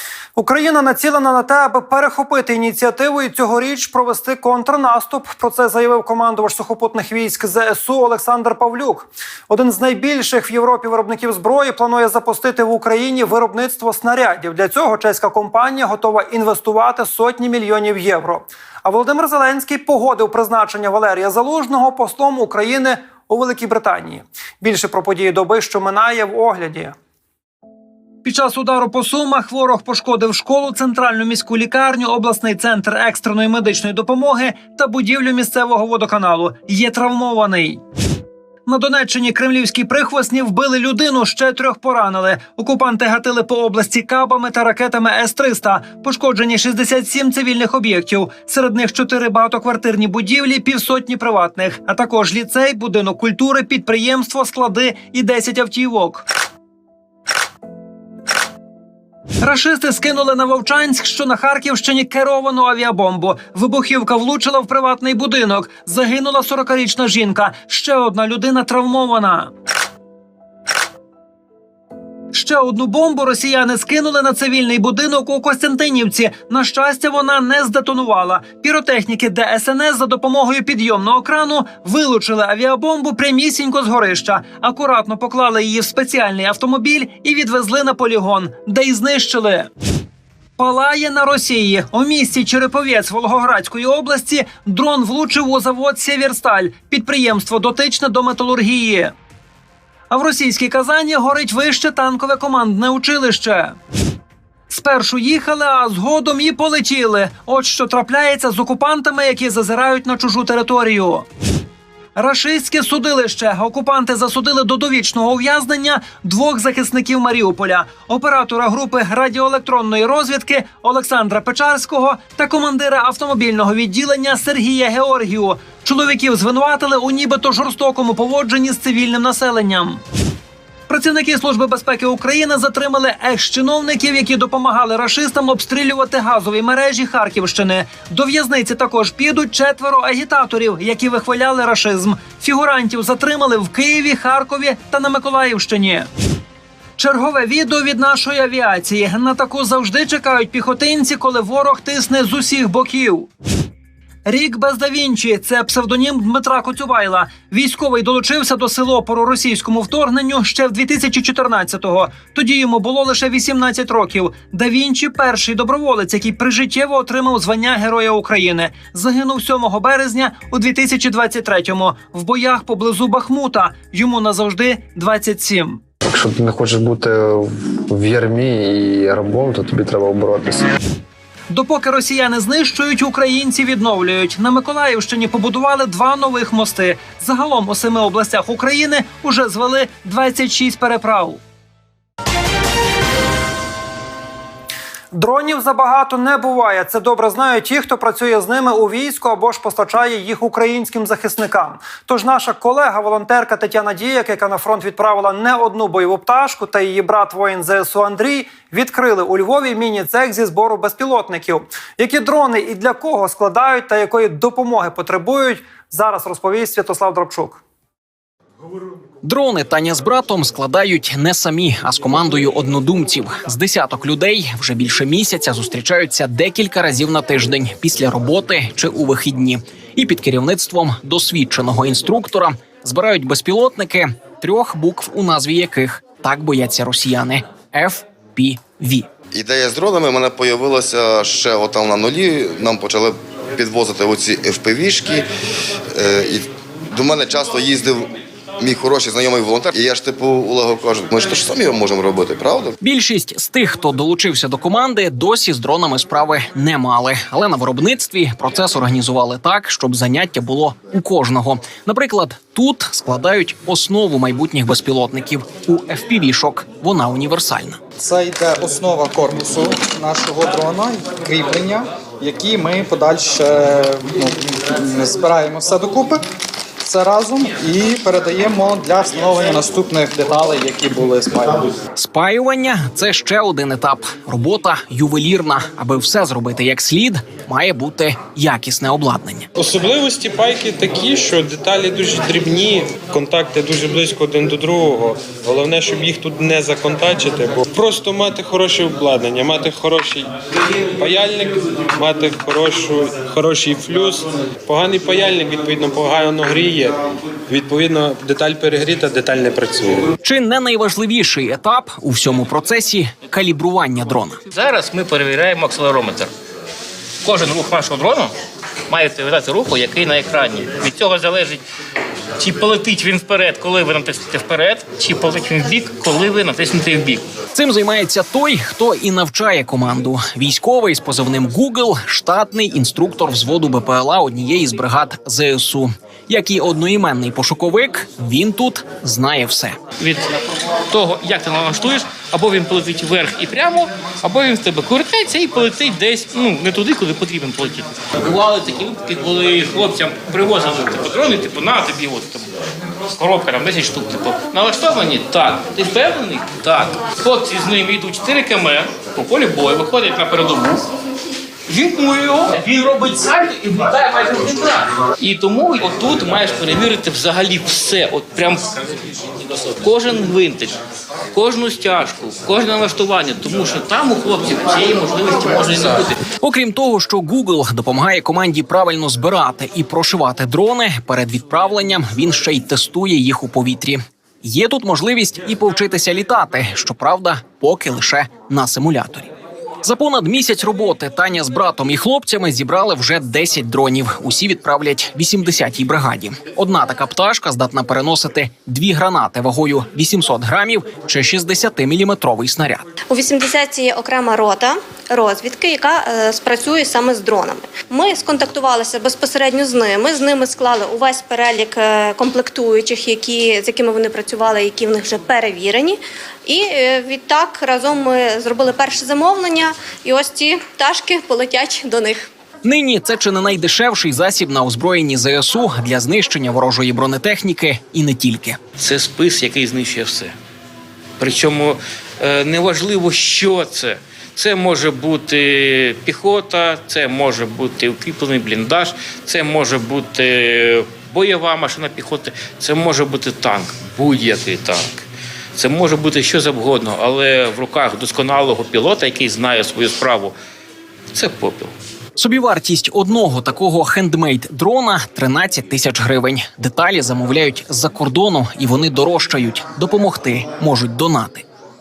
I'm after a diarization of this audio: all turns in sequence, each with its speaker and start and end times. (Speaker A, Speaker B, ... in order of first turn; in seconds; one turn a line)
Speaker A: 0.3-26.9
Speaker A: 28.2-37.8
Speaker A: 38.7-56.2
Speaker A: 59.4-69.5
Speaker A: 72.3-89.7
Speaker A: 90.6-99.1
Speaker A: 100.1-103.8
Speaker A: 104.7-111.2
Speaker A: 112.2-130.0
Speaker A: 130.9-146.1
Speaker A: 147.0-153.3
Speaker A: 154.2-175.8
Speaker B: 176.1-177.2
Speaker B: 177.9-180.6
Speaker A: 181.5-191.4
Speaker A: 195.1-217.6
Speaker C: 219.2-239.1
Speaker D: 239.3-245.2
Speaker D: 245.9-248.1
Speaker D: 248.6-252.7
Speaker C: 252.8-267.8
Speaker E: 268.0-276.2
Speaker E: 276.8-281.7
Speaker C: 281.9-289.5
Speaker F: 289.5-300.3
Speaker F: 301.0-310.1
Speaker C: 310.2-314.4
Speaker G: 314.5-316.3
Speaker G: 317.2-318.3
Speaker G: 318.9-321.6
Speaker G: 322.4-327.2
Speaker C: 327.5-339.8
Speaker G: 340.0-340.3
Speaker G: 340.9-352.5
Speaker G: 353.1-360.9
Speaker G: 361.7-368.8
Speaker G: 369.8-370.8
Speaker G: 371.3-376.2
Speaker C: 376.2-402.9
Speaker H: 403.1-422.3
Speaker C: 422.6-428.6
Speaker G: 428.8-430.3
Speaker G: 431.2-445.0
Speaker G: 445.5-450.4
Speaker G: 451.1-451.7
Speaker C: 452.1-461.4